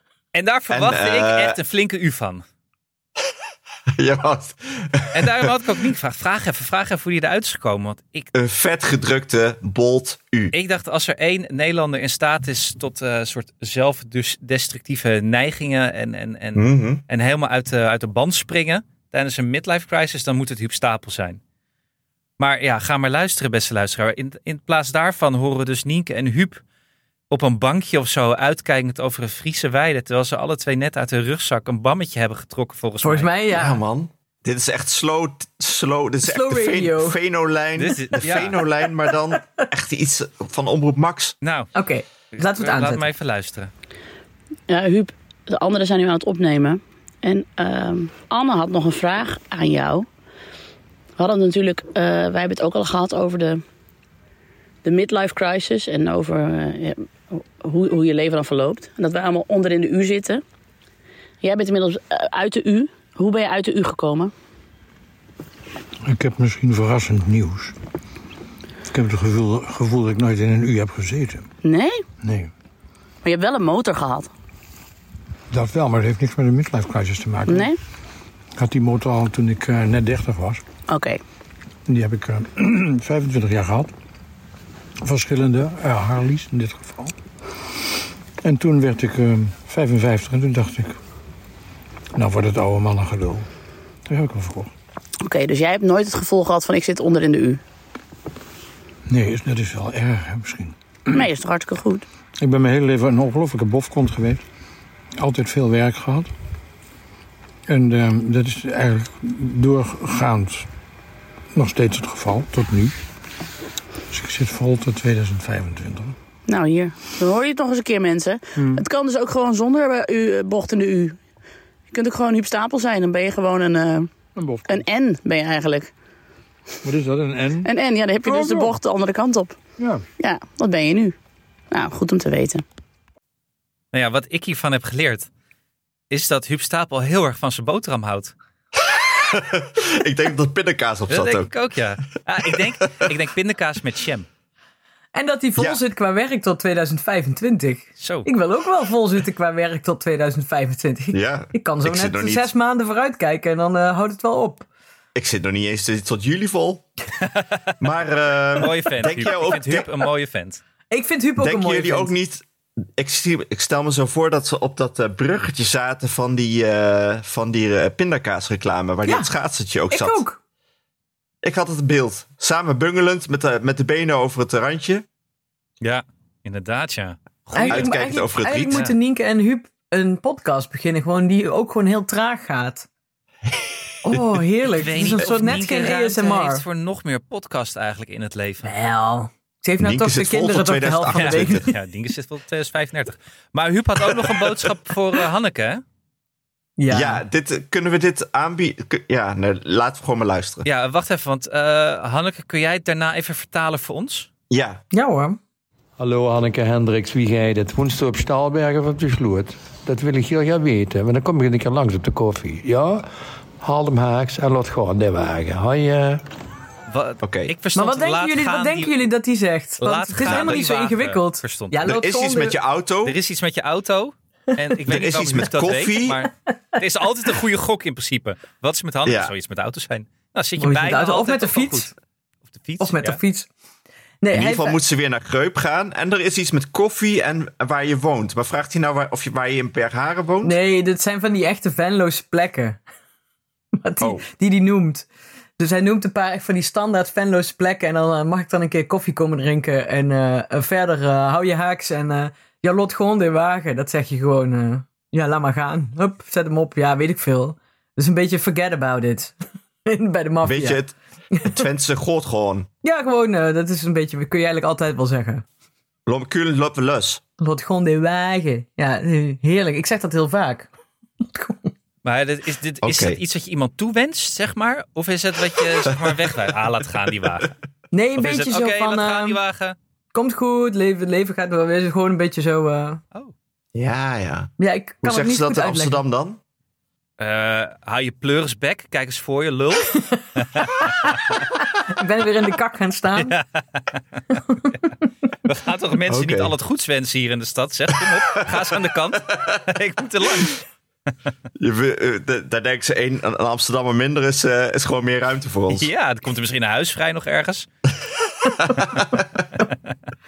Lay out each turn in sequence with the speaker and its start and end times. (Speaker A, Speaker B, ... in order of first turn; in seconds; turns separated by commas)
Speaker A: 0.3-2.4, Speaker B: 0.7-1.6, Speaker B: 4.0-5.6, Speaker A: 5.1-8.3, Speaker B: 8.3-10.5, Speaker A: 10.5-21.4, Speaker B: 16.6-17.0, Speaker A: 22.4-26.6, Speaker A: 27.3-33.3, Speaker C: 33.0-33.8, Speaker B: 33.5-41.4, Speaker C: 36.2-37.2, Speaker A: 37.8-38.6, Speaker A: 41.4-41.7, Speaker C: 41.7-43.1, Speaker A: 42.3-43.7, Speaker D: 44.7-50.1, Speaker D: 51.2-53.6, Speaker D: 54.8-60.4, Speaker D: 61.4-64.3, Speaker E: 66.0-67.8, Speaker E: 68.9-71.5, Speaker D: 71.6-72.0, Speaker E: 72.2-72.5, Speaker D: 73.2-74.3, Speaker E: 75.5-77.7, Speaker D: 77.5-77.8, Speaker E: 78.6-80.6, Speaker D: 80.9-81.2, Speaker E: 81.9-83.9, Speaker E: 85.0-87.1, Speaker E: 88.4-91.0, Speaker E: 92.2-93.5, Speaker E: 94.1-94.7, Speaker D: 95.2-97.6, Speaker E: 99.1-101.2, Speaker D: 101.1-102.1, Speaker E: 102.4-104.4, Speaker E: 105.2-106.3, Speaker E: 107.7-110.7, Speaker E: 111.5-113.0, Speaker E: 114.1-116.2, Speaker D: 116.5-121.2, Speaker E: 118.6-118.8, Speaker D: 121.9-124.1, Speaker E: 124.4-124.8, Speaker D: 124.7-125.9, Speaker E: 126.8-127.7, Speaker D: 127.7-129.6, Speaker E: 128.2-128.8, Speaker E: 129.8-130.1, Speaker D: 130.2-131.2, Speaker D: 131.7-132.6, Speaker A: 133.9-135.3, Speaker A: 136.1-138.3, Speaker B: 138.8-141.5, Speaker A: 141.1-144.3, Speaker C: 145.1-154.7, Speaker A: 148.0-148.3, Speaker B: 151.1-152.5, Speaker B: 155.2-156.9, Speaker B: 157.8-159.9, Speaker A: 158.6-160.6, Speaker C: 160.9-162.1, Speaker B: 161.4-162.4, Speaker B: 163.0-170.2, Speaker C: 169.1-169.3, Speaker C: 169.9-170.4, Speaker B: 171.4-175.1, Speaker A: 175.8-177.9, Speaker C: 177.5-182.9, Speaker B: 177.6-178.8, Speaker C: 184.0-186.6, Speaker A: 184.7-188.7, Speaker C: 188.6-191.7, Speaker B: 189.8-191.7, Speaker A: 191.1-195.8, Speaker C: 196.8-197.2, Speaker B: 196.9-200.7, Speaker A: 200.7-204.3, Speaker B: 204.5-204.8, Speaker C: 204.9-205.4, Speaker F: 206.0-213.1, Speaker F: 213.6-216.2, Speaker A: 216.9-219.0, Speaker B: 217.2-217.5, Speaker C: 217.8-222.6, Speaker A: 219.8-221.8, Speaker B: 220.2-220.6, Speaker B: 221.8-223.2, Speaker A: 223.0-231.9, Speaker B: 224.9-226.2, Speaker B: 229.1-229.3, Speaker C: 230.6-231.9, Speaker A: 232.5-233.2, Speaker C: 232.8-233.5, Speaker C: 234.2-234.8, Speaker B: 234.3-240.6, Speaker C: 240.4-242.8, Speaker C: 243.8-245.1, Speaker B: 244.0-244.3, Speaker C: 245.6-259.4, Speaker C: 259.9-260.8, Speaker B: 260.4-262.7, Speaker C: 262.8-265.4, Speaker B: 266.1-267.2, Speaker C: 267.4-270.7, Speaker C: 271.2-271.7, Speaker A: 272.0-277.5, Speaker B: 272.8-273.2, Speaker C: 277.9-279.4, Speaker A: 278.2-279.8, Speaker C: 280.1-283.0, Speaker B: 283.8-286.4, Speaker C: 284.6-286.0, Speaker A: 287.2-291.1, Speaker C: 289.9-293.4, Speaker A: 293.2-293.9, Speaker A: 295.5-300.6, Speaker B: 296.1-296.5, Speaker B: 301.6-305.9, Speaker A: 305.7-307.7, Speaker B: 308.6-309.2, Speaker A: 308.8-309.1